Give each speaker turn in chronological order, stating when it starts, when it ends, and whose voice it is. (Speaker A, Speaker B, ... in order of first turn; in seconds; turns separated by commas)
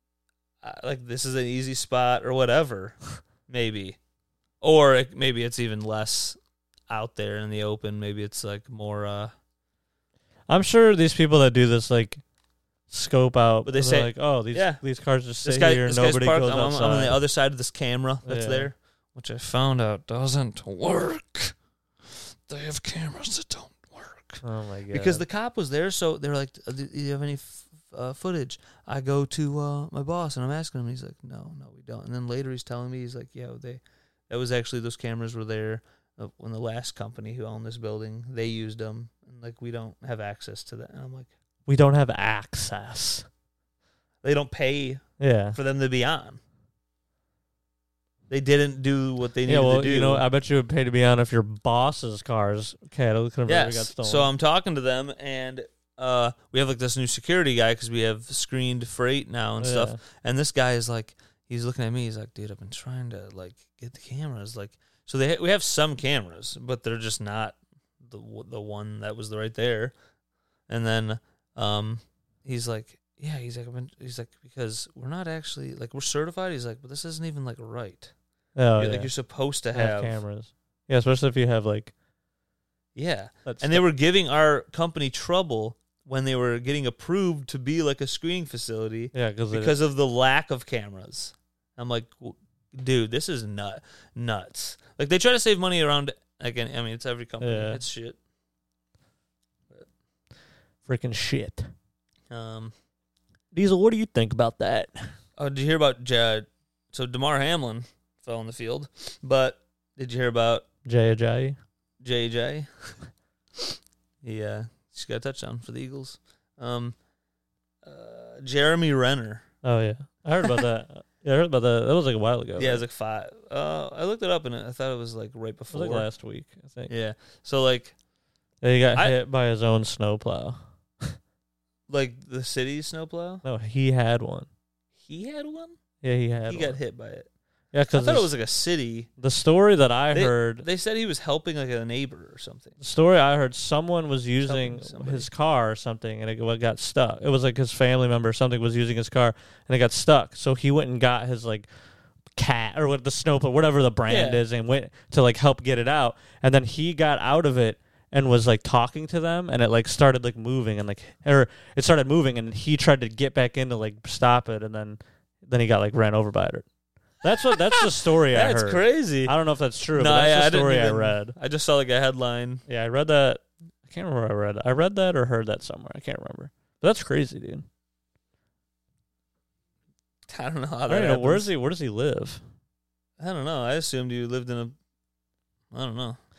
Speaker A: 0.6-4.0, Speaker A: 4.6-9.3, Speaker B: 10.5-12.2, Speaker B: 12.9-17.2, Speaker A: 13.7-14.8, Speaker A: 15.4-21.5, Speaker B: 18.2-18.7, Speaker A: 22.1-41.3, Speaker B: 24.4-25.2, Speaker B: 41.7-43.2, Speaker A: 44.2-45.0, Speaker B: 45.2-45.6, Speaker A: 45.5-46.4, Speaker A: 48.3-50.2, Speaker B: 49.5-54.3, Speaker A: 53.5-69.9, Speaker B: 59.6-60.0, Speaker A: 70.7-78.1, Speaker B: 78.5-79.1, Speaker A: 78.8-80.2, Speaker B: 79.7-81.9, Speaker A: 82.9-98.2, Speaker B: 83.4-83.8, Speaker B: 89.1-89.7, Speaker B: 97.4-97.8, Speaker B: 100.8-101.7, Speaker A: 102.3-102.7, Speaker B: 103.5-105.1, Speaker A: 105.4-110.6, Speaker B: 110.8-111.6, Speaker A: 112.0-112.9, Speaker A: 114.2-117.0, Speaker A: 117.8-119.4, Speaker B: 119.6-122.8, Speaker A: 122.6-126.1, Speaker B: 125.7-126.9, Speaker A: 126.9-127.9, Speaker B: 128.6-131.2, Speaker A: 131.9-133.4, Speaker B: 133.4-134.5, Speaker A: 135.0-135.8, Speaker B: 136.0-136.8, Speaker A: 136.5-137.3, Speaker B: 137.7-138.3, Speaker A: 137.9-139.1, Speaker B: 139.2-140.7, Speaker A: 140.1-142.8, Speaker B: 142.8-151.7, Speaker A: 144.4-145.3, Speaker B: 152.3-166.7, Speaker A: 154.1-154.4, Speaker B: 167.2-171.3, Speaker A: 167.5-169.3, Speaker A: 169.9-172.6, Speaker B: 172.7-177.7, Speaker A: 180.3-181.5, Speaker B: 180.9-182.4, Speaker A: 183.2-184.7, Speaker A: 185.7-186.2